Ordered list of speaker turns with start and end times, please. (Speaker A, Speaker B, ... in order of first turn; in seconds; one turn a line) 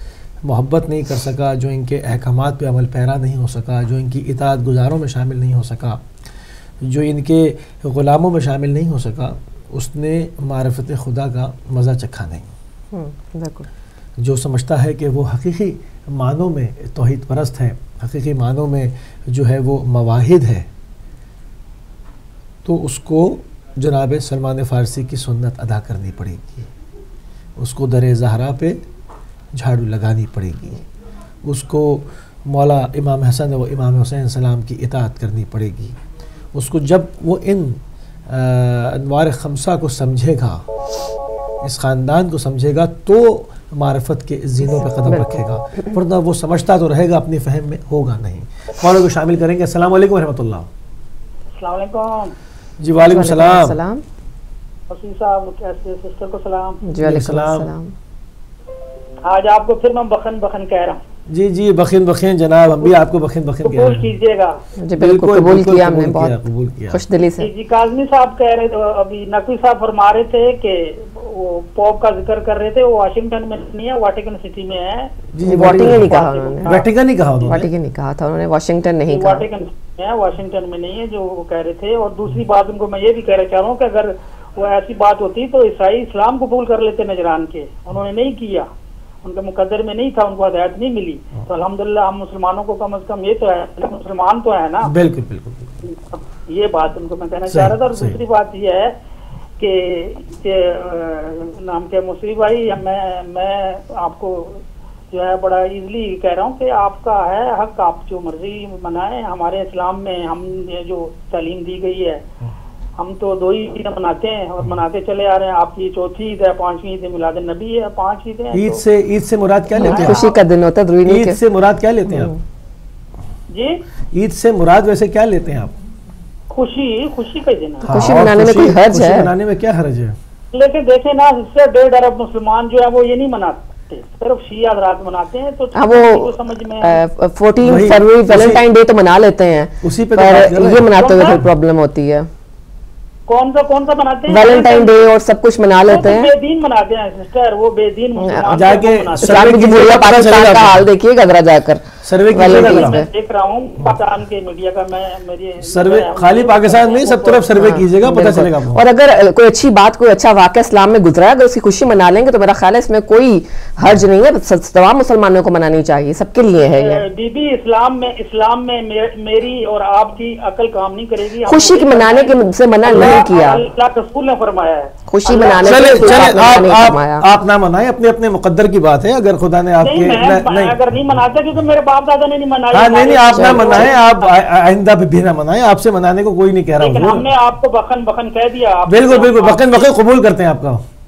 Speaker A: 0.4-6.0
Speaker A: 6.8-12.5
Speaker B: 12.9-13.7
Speaker A: 14.2-20.7
Speaker A: 22.6-26.7
Speaker A: 27.6-28.8
Speaker A: 29.5-30.8
Speaker A: 31.4-36.0
Speaker A: 36.5-40.6
Speaker A: 41.6-50.7
Speaker B: 45.0-45.9
Speaker C: 51.6-52.3
Speaker A: 52.8-53.8
Speaker B: 53.0-54.0
Speaker C: 54.9-56.9
Speaker B: 56.8-57.9
Speaker A: 57.0-57.7
Speaker C: 59.2-61.0
Speaker A: 61.3-64.1
Speaker C: 63.6-64.6
Speaker B: 64.8-66.3
Speaker A: 65.0-67.0
Speaker B: 66.9-67.5
Speaker C: 67.4-75.1
Speaker A: 75.3-77.7
Speaker B: 75.4-76.8
Speaker C: 75.7-76.8
Speaker B: 77.4-79.4
Speaker C: 79.1-88.7
Speaker C: 89.2-94.9
Speaker A: 94.8-95.7
Speaker C: 96.1-99.0
Speaker A: 97.5-98.2
Speaker C: 99.6-112.2
Speaker C: 113.0-118.8
Speaker A: 118.5-120.3
Speaker B: 119.7-121.4
Speaker C: 119.8-120.3
Speaker A: 121.0-122.3
Speaker B: 122.1-122.4
Speaker C: 123.5-123.8
Speaker A: 124.1-125.7
Speaker C: 126.5-128.2
Speaker A: 127.8-130.2
Speaker B: 127.8-129.3
Speaker C: 130.5-137.0
Speaker B: 135.7-142.3
Speaker A: 137.6-138.6
Speaker A: 139.8-141.4
Speaker C: 140.8-141.4
Speaker C: 143.3-145.0
Speaker B: 144.3-146.3
Speaker C: 145.8-149.8
Speaker B: 148.2-148.6
Speaker A: 148.5-150.9
Speaker B: 149.2-153.1
Speaker A: 152.0-153.0
Speaker C: 152.4-157.6
Speaker A: 155.6-158.8
Speaker B: 157.5-167.0
Speaker C: 166.7-176.7
Speaker B: 171.4-173.6
Speaker A: 172.9-173.2
Speaker B: 175.1-177.3
Speaker A: 175.5-180.8
Speaker C: 179.8-184.3
Speaker A: 182.7-187.3
Speaker B: 183.2-183.9
Speaker C: 186.8-189.6
Speaker A: 188.8-190.8